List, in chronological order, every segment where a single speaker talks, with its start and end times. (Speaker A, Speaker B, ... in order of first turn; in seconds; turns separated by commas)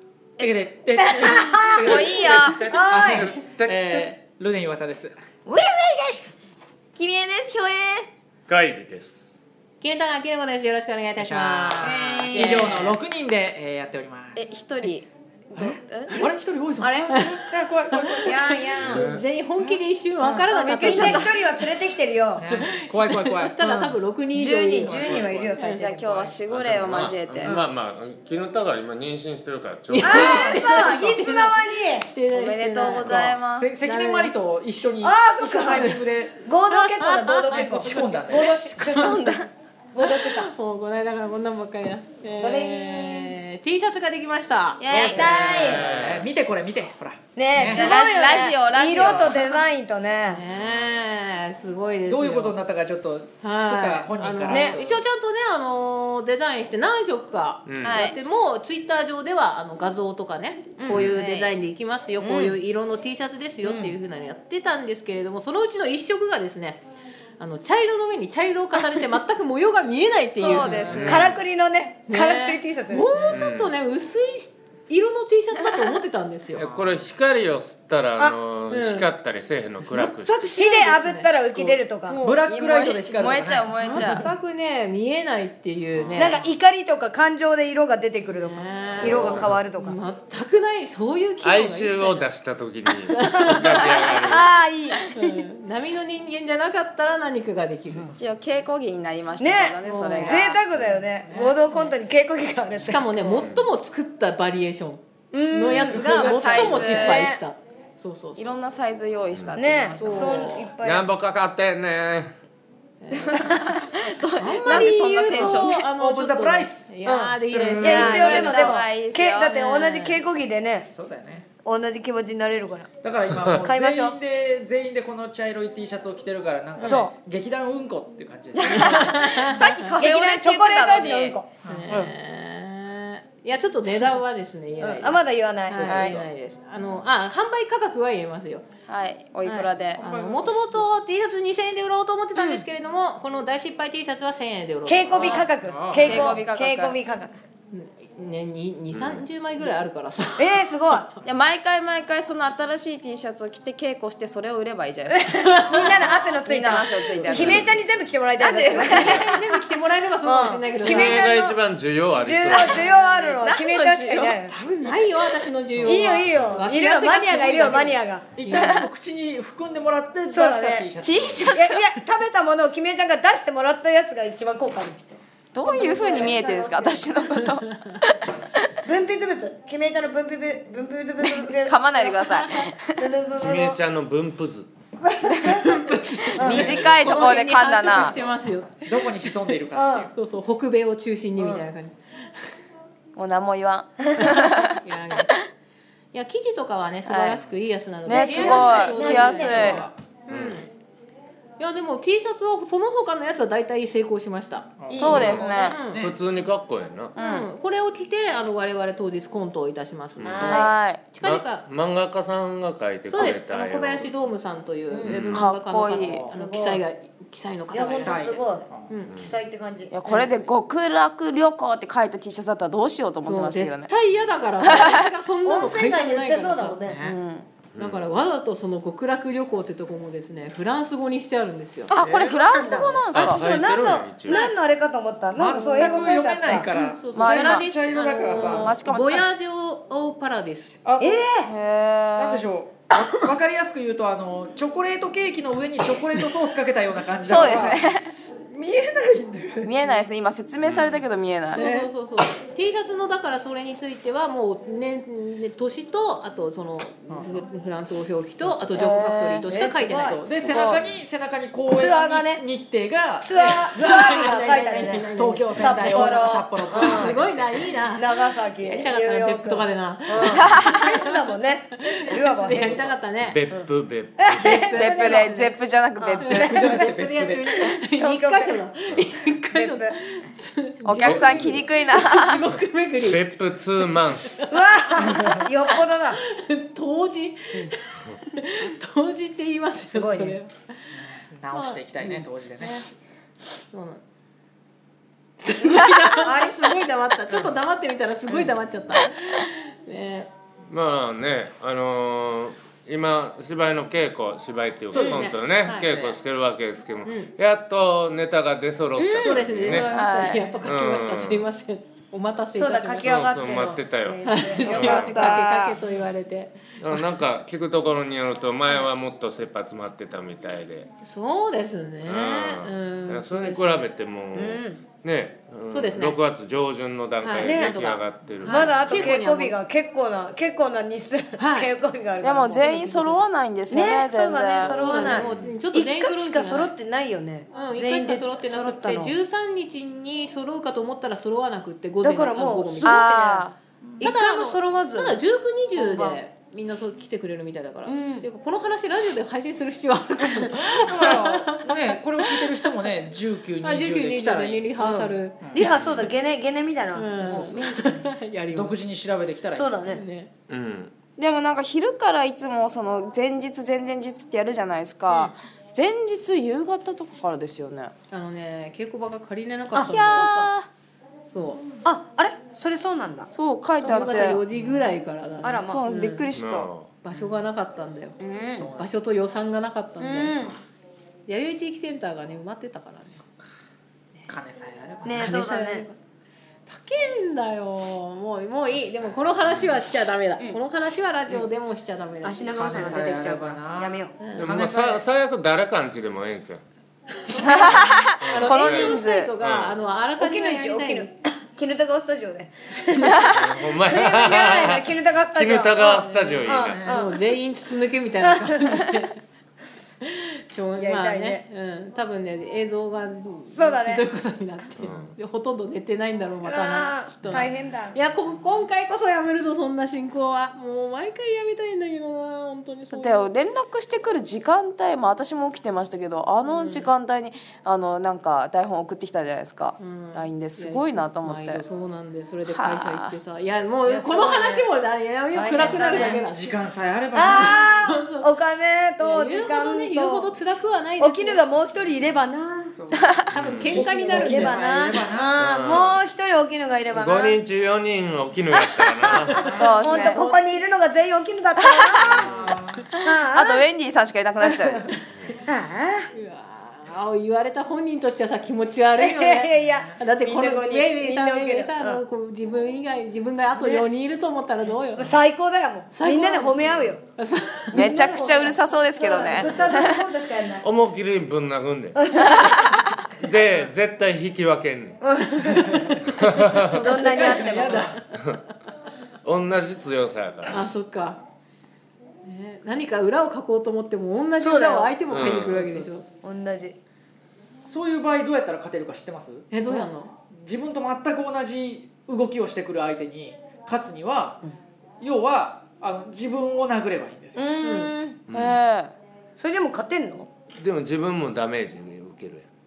Speaker A: 0.4-5.1, Speaker B: 1.0-2.0, Speaker C: 1.8-2.6, Speaker D: 1.9-4.1, Speaker B: 2.7-3.3, Speaker B: 5.5-6.2, Speaker C: 7.0-7.7, Speaker B: 7.7-8.1, Speaker D: 8.5-9.4, Speaker E: 9.8-12.9, Speaker A: 11.2-14.5, Speaker B: 11.8-12.8, Speaker C: 14.3-16.1, Speaker A: 15.6-18.6, Speaker B: 16.8-17.4, Speaker E: 17.1-17.4, Speaker E: 18.1-18.3, Speaker B: 18.2-19.0, Speaker D: 18.8-19.2, Speaker E: 18.9-21.3, Speaker B: 20.2-22.4, Speaker C: 20.5-21.4, Speaker A: 22.4-23.5, Speaker E: 22.5-25.9, Speaker B: 23.6-26.3, Speaker A: 24.8-25.5, Speaker C: 25.6-27.6, Speaker D: 26.5-30.6, Speaker E: 29.9-34.3, Speaker B: 30.0-32.1, Speaker C: 32.3-33.7, Speaker D: 33.0-33.3, Speaker A: 33.1-36.4, Speaker B: 35.0-39.2, Speaker E: 36.7-38.0, Speaker A: 37.0-38.6, Speaker E: 38.8-39.2, Speaker C: 38.8-39.5, Speaker B: 39.9-40.5, Speaker E: 40.0-44.9, Speaker B: 42.4-43.3, Speaker C: 44.8-45.3, Speaker A: 44.9-48.0, Speaker B: 45.0-45.9, Speaker D: 45.5-46.2, Speaker B: 47.3-50.4, Speaker C: 47.6-49.4, Speaker E: 49.2-49.5, Speaker E: 50.3-52.5, Speaker A: 52.1-55.0, Speaker E: 53.4-66.8, Speaker B: 54.5-54.8, Speaker D: 57.6-58.0, Speaker C: 57.8-58.2, Speaker B: 60.8-61.1, Speaker D: 60.9-61.2, Speaker C: 61.0-61.5, Speaker B: 62.2-62.6, Speaker B: 63.6-64.0, Speaker E: 67.4-71.2, Speaker C: 70.3-71.2, Speaker A: 70.5-71.3, Speaker D: 70.9-71.4, Speaker B: 71.0-73.2, Speaker E: 72.1-76.7, Speaker A: 73.1-73.4, Speaker D: 73.3-73.7, Speaker C: 75.5-75.9, Speaker D: 76.5-80.5, Speaker A: 76.5-77.0, Speaker E: 78.7-79.1, Speaker E: 79.9-82.3, Speaker B: 80.3-82.2, Speaker A: 82.1-84.3, Speaker C: 82.5-84.3, Speaker E: 83.8-86.4, Speaker D: 85.9-86.3, Speaker B: 86.1-90.0, Speaker E: 88.4-92.3, Speaker D: 89.0-89.5, Speaker D: 91.4-94.5, Speaker E: 93.0-94.1, Speaker B: 93.2-95.4, Speaker E: 95.0-98.2, Speaker C: 98.2-100.6, Speaker B: 99.4-103.0, Speaker E: 99.8-100.6, Speaker E: 101.2-101.9, Speaker E: 102.8-108.5, Speaker D: 103.3-103.7, Speaker B: 105.3-106.1, Speaker C: 105.9-107.2, Speaker A: 106.1-106.8, Speaker B: 106.7-107.4, Speaker C: 108.4-110.5, Speaker B: 109.5-111.1, Speaker E: 110.0-110.7, Speaker D: 110.8-112.3, Speaker E: 113.0-113.4, Speaker C: 113.2-115.9, Speaker E: 114.4-118.7, Speaker A: 116.0-116.8, Speaker B: 117.0-120.9, Speaker A: 117.5-118.6, Speaker C: 117.8-120.1, Speaker A: 120.9-121.5, Speaker B: 121.6-122.9, Speaker A: 123.0-129.2, Speaker B: 123.6-124.2, Speaker B: 126.8-127.1, Speaker C: 128.5-131.4, Speaker E: 128.7-129.8, Speaker B: 129.9-132.1, Speaker A: 131.6-131.9, Speaker E: 131.7-138.6, Speaker B: 134.8-136.2, Speaker A: 135.8-136.2, Speaker C: 138.9-140.0, Speaker E: 139.4-145.5, Speaker A: 139.9-140.8, Speaker B: 142.3-142.6, Speaker B: 144.8-147.3, Speaker A: 145.1-146.4, Speaker C: 145.9-147.0, Speaker E: 147.7-150.6, Speaker D: 148.9-149.2, Speaker B: 150.4-151.1, Speaker C: 151.2-155.7, Speaker B: 155.1-159.6, Speaker E: 155.4-156.2, Speaker A: 155.7-155.9, Speaker C: 156.4-157.7, Speaker D: 157.3-157.8, Speaker C: 158.4-159.3, Speaker E: 158.7-161.3, Speaker D: 159.0-159.2, Speaker B: 160.2-161.5, Speaker D: 160.8-162.9, Speaker B: 162.2-164.5, Speaker C: 162.5-164.4, Speaker A: 164.5-166.7, Speaker E: 164.8-168.8, Speaker B: 165.8-168.3, Speaker A: 168.3-171.7, Speaker C: 168.5-168.9, Speaker B: 170.3-170.9, Speaker C: 171.0-171.8, Speaker B: 171.5-177.1, Speaker C: 175.5-178.2, Speaker E: 177.3-177.9, Speaker B: 178.8-183.8, Speaker C: 181.2-183.0, Speaker D: 183.4-184.7, Speaker B: 185.0-186.8, Speaker E: 185.4-189.1, Speaker C: 186.4-188.1, Speaker A: 186.4-186.8, Speaker A: 187.9-188.2, Speaker A: 188.8-190.1, Speaker B: 189.7-190.1, Speaker E: 190.1-192.3, Speaker C: 193.2-194.8, Speaker E: 194.2-195.4, Speaker E: 196.1-200.7, Speaker C: 197.0-197.4, Speaker B: 198.1-199.8, Speaker C: 198.1-199.8, Speaker A: 199.1-199.9, Speaker D: 200.3-200.7, Speaker E: 201.6-206.1, Speaker A: 204.8-206.2, Speaker B: 204.9-205.5, Speaker C: 204.9-205.8, Speaker D: 206.0-207.1, Speaker C: 207.2-207.5, Speaker E: 207.2-211.7, Speaker D: 210.2-210.6, Speaker B: 210.2-210.7, Speaker C: 210.4-211.1, Speaker D: 211.2-214.1, Speaker E: 213.1-219.1, Speaker D: 215.0-215.5, Speaker C: 215.3-216.3, Speaker A: 216.0-216.3, Speaker B: 216.2-216.8, Speaker B: 217.7-220.3, Speaker A: 217.9-219.0, Speaker D: 219.1-219.4, Speaker C: 219.9-223.9, Speaker E: 223.2-226.8, Speaker C: 224.6-225.1, Speaker B: 225.4-227.0, Speaker A: 226.9-227.2, Speaker C: 227.0-227.5, Speaker D: 227.7-228.1, Speaker E: 227.8-231.9, Speaker B: 231.9-236.7, Speaker A: 231.9-232.4, Speaker C: 231.9-233.4, Speaker D: 233.1-234.4, Speaker A: 235.3-238.7, Speaker E: 236.7-240.7, Speaker C: 237.1-237.7, Speaker C: 238.3-239.2, Speaker A: 240.8-241.3, Speaker B: 241.0-241.5, Speaker C: 241.4-242.4, Speaker A: 242.2-247.9, Speaker C: 247.2-248.1, Speaker A: 248.5-249.9, Speaker C: 249.6-251.6, Speaker D: 250.7-251.0, Speaker E: 251.5-260.2, Speaker A: 251.5-251.8, Speaker A: 257.1-257.4, Speaker C: 258.7-259.5, Speaker B: 259.5-260.2, Speaker A: 260.0-264.6, Speaker C: 260.4-260.8, Speaker B: 261.7-262.4, Speaker B: 263.2-267.2, Speaker E: 263.7-271.1, Speaker A: 265.1-267.7, Speaker C: 265.9-266.5, Speaker B: 267.9-272.9, Speaker C: 270.3-270.8, Speaker E: 271.9-273.4, Speaker A: 272.6-272.9, Speaker D: 273.2-274.6, Speaker B: 274.2-275.3, Speaker E: 274.3-275.5, Speaker C: 274.7-276.7, Speaker B: 276.0-276.9, Speaker E: 276.3-283.4, Speaker A: 276.3-277.5, Speaker B: 277.7-278.6, Speaker B: 279.5-280.0, Speaker C: 280.8-282.4, Speaker D: 281.0-281.6, Speaker D: 283.0-284.4, Speaker B: 284.4-286.2, Speaker E: 285.0-290.5, Speaker B: 289.9-290.4, Speaker A: 290.9-292.8, Speaker E: 291.5-292.8, Speaker E: 293.7-294.0, Speaker E: 295.4-300.3, Speaker B: 295.6-296.8, Speaker A: 298.3-298.6, Speaker D: 300.7-309.9, Speaker E: 304.9-306.0, Speaker B: 304.9-305.2, Speaker A: 305.9-306.1, Speaker E: 307.0-307.3, Speaker E: 309.1-313.1, Speaker C: 309.8-310.5, Speaker D: 310.6-311.5, Speaker B: 312.5-315.8, Speaker D: 313.0-315.3, Speaker E: 314.2-317.0, Speaker D: 316.8-320.9, Speaker E: 321.0-323.8, Speaker D: 322.0-329.2, Speaker B: 324.3-324.8, Speaker E: 325.7-326.2, Speaker E: 327.2-329.6, Speaker B: 327.4-327.7, Speaker B: 328.4-339.1, Speaker E: 331.4-331.7, Speaker C: 332.2-335.0, Speaker E: 334.6-336.8, Speaker D: 335.0-335.6, Speaker E: 337.5-343.1, Speaker B: 342.0-345.2, Speaker C: 342.8-343.6, Speaker E: 344.0-351.6, Speaker B: 345.8-346.2, Speaker B: 347.9-348.3, Speaker A: 350.5-354.8, Speaker E: 353.6-355.4, Speaker B: 354.8-358.1, Speaker D: 355.6-356.1, Speaker E: 356.9-358.7, Speaker A: 357.2-357.6, Speaker A: 358.5-359.9, Speaker B: 359.5-360.0, Speaker E: 359.9-360.3, Speaker D: 360.5-360.9, Speaker C: 361.2-367.9, Speaker E: 368.1-370.5, Speaker B: 369.7-370.7, Speaker E: 371.3-371.6, Speaker B: 371.8-374.4, Speaker C: 373.3-374.4, Speaker E: 373.8-376.3, Speaker B: 375.4-375.8, Speaker C: 375.6-376.7, Speaker D: 376.4-376.9, Speaker E: 377.0-378.2, Speaker A: 377.1-377.4, Speaker C: 378.2-378.7, Speaker A: 378.5-378.9, Speaker E: 378.7-380.5, Speaker A: 380.1-380.6, Speaker E: 381.3-383.2, Speaker A: 384.3-385.3, Speaker B: 385.0-385.9, Speaker E: 385.1-386.0, Speaker E: 386.7-393.0, Speaker A: 388.7-389.3, Speaker B: 392.2-394.2, Speaker A: 392.5-395.0, Speaker E: 394.2-394.5, Speaker D: 394.4-396.6, Speaker E: 397.1-401.1, Speaker C: 397.4-399.3, Speaker B: 397.4-397.7, Speaker D: 398.2-399.8, Speaker B: 400.2-407.1, Speaker C: 403.0-403.5, Speaker D: 403.1-406.8, Speaker E: 405.8-409.2, Speaker A: 406.5-407.1, Speaker B: 408.2-408.7, Speaker E: 410.0-423.3, Speaker B: 410.8-411.4, Speaker B: 413.5-414.0, Speaker D: 414.8-415.1, Speaker B: 416.4-418.0, Speaker C: 422.9-431.6, Speaker E: 426.4-426.9, Speaker E: 429.8-436.6, Speaker C: 432.5-433.2, Speaker B: 433.9-434.7, Speaker B: 435.3-436.2, Speaker A: 435.5-437.7, Speaker B: 437.1-440.3, Speaker E: 437.4-438.3, Speaker E: 439.0-441.4, Speaker B: 441.0-442.7, Speaker A: 442.7-445.4, Speaker E: 443.3-444.6, Speaker D: 443.3-443.9, Speaker B: 443.9-447.4, Speaker D: 445.4-446.0, Speaker D: 446.9-449.5, Speaker B: 448.5-452.3, Speaker C: 449.5-450.2, Speaker E: 449.5-450.5, Speaker C: 451.6-452.3, Speaker A: 452.0-452.8, Speaker B: 453.0-453.6, Speaker C: 453.1-454.8, Speaker B: 454.4-456.1, Speaker E: 456.1-465.1, Speaker B: 458.9-462.0, Speaker A: 459.6-459.9, Speaker B: 463.6-463.9, Speaker B: 464.9-467.0, Speaker E: 465.9-466.6, Speaker D: 466.6-466.9, Speaker E: 467.1-468.3, Speaker C: 467.7-470.0, Speaker B: 467.8-470.6, Speaker D: 470.6-475.0, Speaker B: 471.9-472.3, Speaker B: 475.0-475.8, Speaker A: 475.4-476.0, Speaker D: 476.1-476.8, Speaker A: 476.6-478.0, Speaker B: 476.6-477.9, Speaker D: 479.2-480.7, Speaker E: 480.5-481.2, Speaker E: 482.2-486.1, Speaker B: 484.4-485.0, Speaker D: 485.1-485.6, Speaker A: 485.3-485.9, Speaker B: 486.2-486.8, Speaker A: 487.6-489.5, Speaker E: 489.5-490.1, Speaker A: 490.3-494.5, Speaker A: 495.0-497.4, Speaker B: 497.3-498.2, Speaker E: 497.6-497.9, Speaker D: 498.3-498.6, Speaker C: 498.3-498.9, Speaker B: 499.4-500.3, Speaker D: 500.6-502.4